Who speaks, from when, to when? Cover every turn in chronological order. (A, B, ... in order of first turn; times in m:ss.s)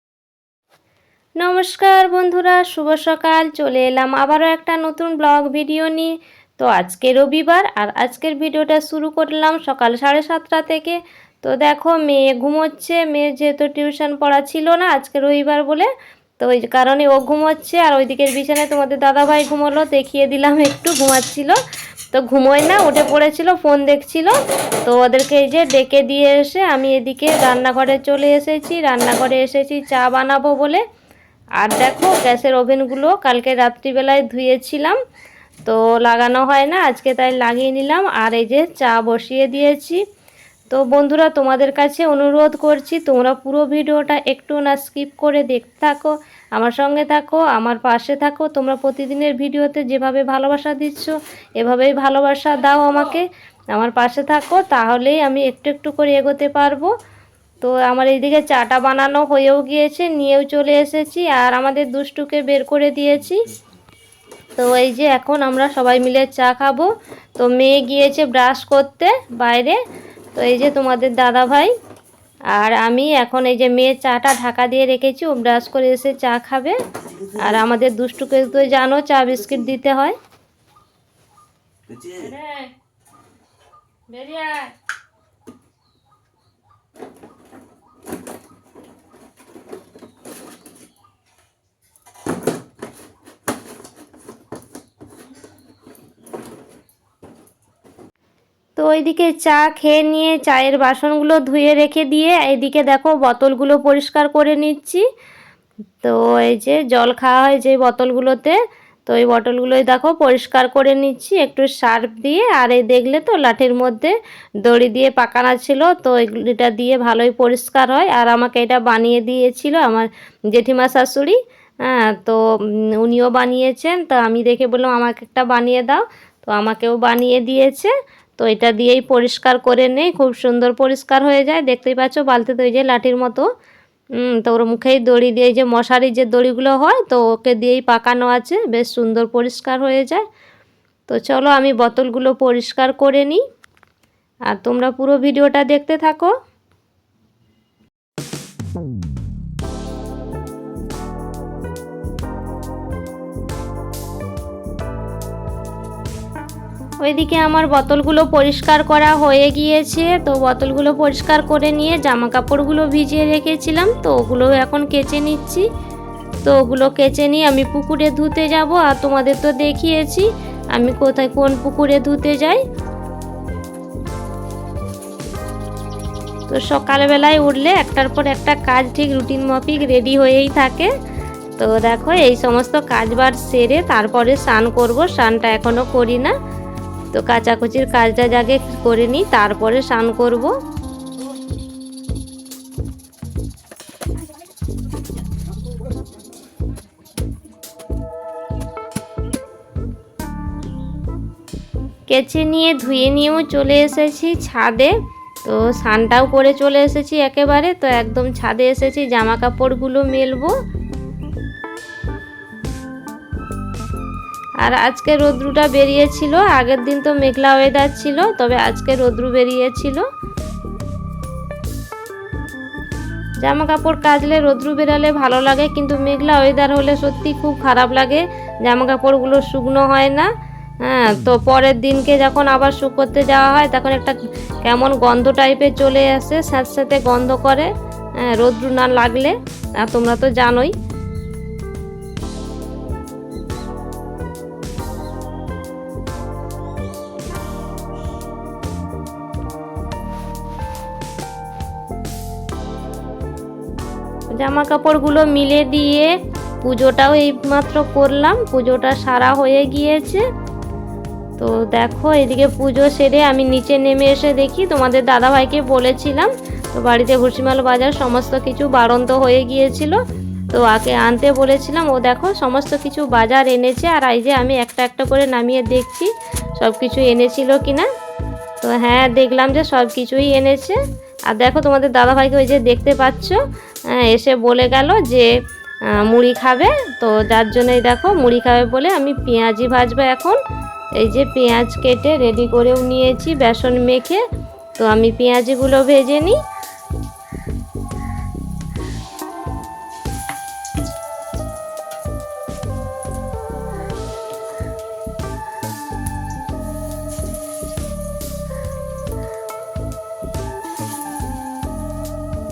0:01.4-0:21.6 A
0:22.1-0:30.8 A
0:31.6-0:35.0 A
0:35.6-0:40.0 A
0:40.7-0:56.9 A
0:57.6-1:03.4 A
1:04.6-1:09.8 A
1:10.3-1:11.7 A
1:12.5-1:16.8 A
1:17.4-1:20.2 A
1:22.1-1:22.7 A
1:24.1-1:24.7 A
1:38.8-1:45.0 A
1:46.0-2:02.4 A
2:03.0-2:13.5 A
2:14.2-2:20.2 A
2:21.1-2:23.4 A
2:24.5-2:26.3 A
2:37.0-2:45.6 A
2:46.4-2:52.6 A
2:56.5-3:00.9 A
3:01.6-3:06.4 A
3:07.1-3:10.5 A
3:22.1-3:24.9 A
3:25.4-3:30.5 A
3:34.6-3:40.0 A
3:43.4-3:50.3 A
3:50.8-3:57.7 A
3:58.2-4:00.7 A
4:14.3-4:20.2 A
4:21.4-4:30.0 A
4:30.5-4:37.9 A
4:38.6-4:40.8 A
4:41.3-4:43.4 A
4:44.0-4:45.3 A
4:46.0-4:50.4 A
4:51.0-4:54.2 A
4:54.8-4:56.4 A